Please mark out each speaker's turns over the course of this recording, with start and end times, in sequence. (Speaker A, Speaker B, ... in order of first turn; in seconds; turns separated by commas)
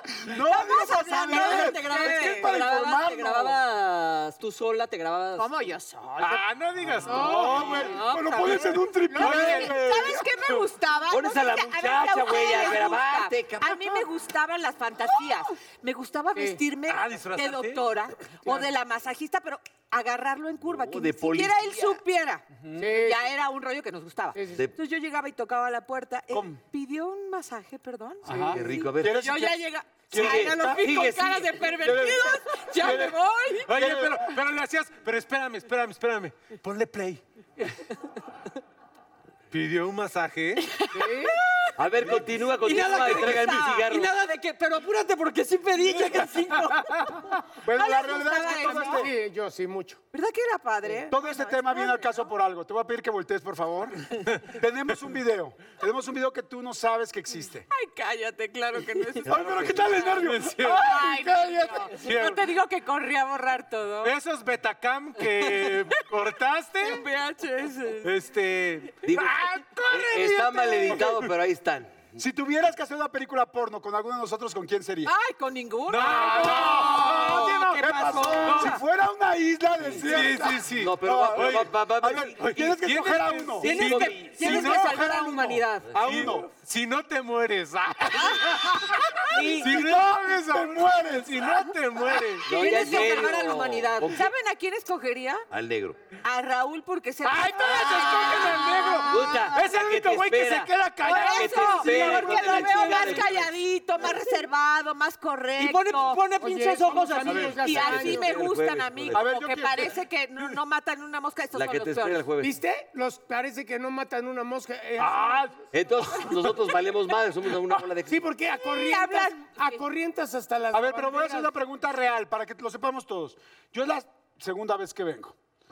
Speaker A: 0.2-3.6, Speaker B: 0.4-2.5, Speaker C: 1.1-5.5, Speaker B: 5.4-6.4, Speaker D: 6.2-7.8, Speaker E: 7.0-7.9, Speaker B: 7.0-33.7, Speaker A: 7.2-10.3, Speaker E: 9.1-9.7, Speaker D: 9.2-9.7, Speaker F: 11.1-13.8, Speaker D: 16.9-17.8, Speaker E: 18.4-18.7, Speaker F: 20.6-22.0, Speaker A: 22.6-23.1, Speaker E: 22.8-23.2, Speaker E: 24.3-24.6, Speaker A: 26.3-26.6, Speaker A: 28.2-30.9, Speaker E: 28.3-28.6, Speaker F: 28.5-29.2, Speaker F: 30.1-31.9, Speaker A: 31.8-34.3, Speaker D: 33.6-37.2, Speaker D: 39.5-40.8, Speaker B: 40.6-41.7, Speaker E: 40.9-41.3, Speaker F: 41.8-44.1, Speaker C: 42.6-46.9, Speaker B: 42.7-43.8, Speaker D: 46.8-47.3, Speaker A: 47.6-49.1, Speaker B: 47.7-49.0, Speaker E: 48.6-50.0, Speaker B: 50.1-52.3, Speaker A: 51.1-57.6, Speaker B: 57.7-64.1, Speaker A: 59.2-61.9, Speaker F: 59.3-60.0, Speaker D: 60.2-61.0, Speaker D: 61.9-62.5, Speaker D: 64.0-67.0, Speaker B: 65.2-66.0, Speaker B: 66.8-68.1, Speaker D: 68.0-71.2, Speaker F: 69.0-72.1, Speaker A: 72.2-75.1, Speaker B: 75.0-78.7, Speaker D: 75.9-77.8, Speaker C: 76.6-78.7, Speaker A: 76.9-86.5, Speaker D: 78.4-78.8, Speaker F: 79.8-82.7, Speaker D: 80.0-81.7, Speaker D: 82.4-93.0, Speaker C: 83.6-85.9, Speaker F: 83.8-84.4, Speaker F: 85.9-86.2, Speaker B: 88.1-89.4, Speaker C: 89.3-89.7, Speaker A: 89.6-91.7, Speaker F: 92.5-94.3, Speaker B: 92.5-93.4, Speaker C: 92.5-94.2, Speaker B: 94.0-95.4, Speaker F: 95.5-96.0, Speaker B: 96.2-99.3, Speaker D: 97.2-102.6, Speaker E: 97.6-98.9, Speaker F: 99.1-103.6, Speaker B: 101.0-106.2, Speaker C: 102.1-103.1, Speaker C: 105.5-107.5, Speaker E: 106.3-108.3, Speaker B: 107.2-112.2, Speaker A: 107.2-107.5, Speaker F: 107.5-109.2, Speaker A: 109.1-110.0, Speaker F: 111.5-112.5, Speaker E: 112.4-115.5, Speaker A: 115.0-115.5, Speaker F: 115.7-118.3, Speaker E: 118.1-121.5, Speaker B: 118.5-119.8, Speaker A: 120.7-125.3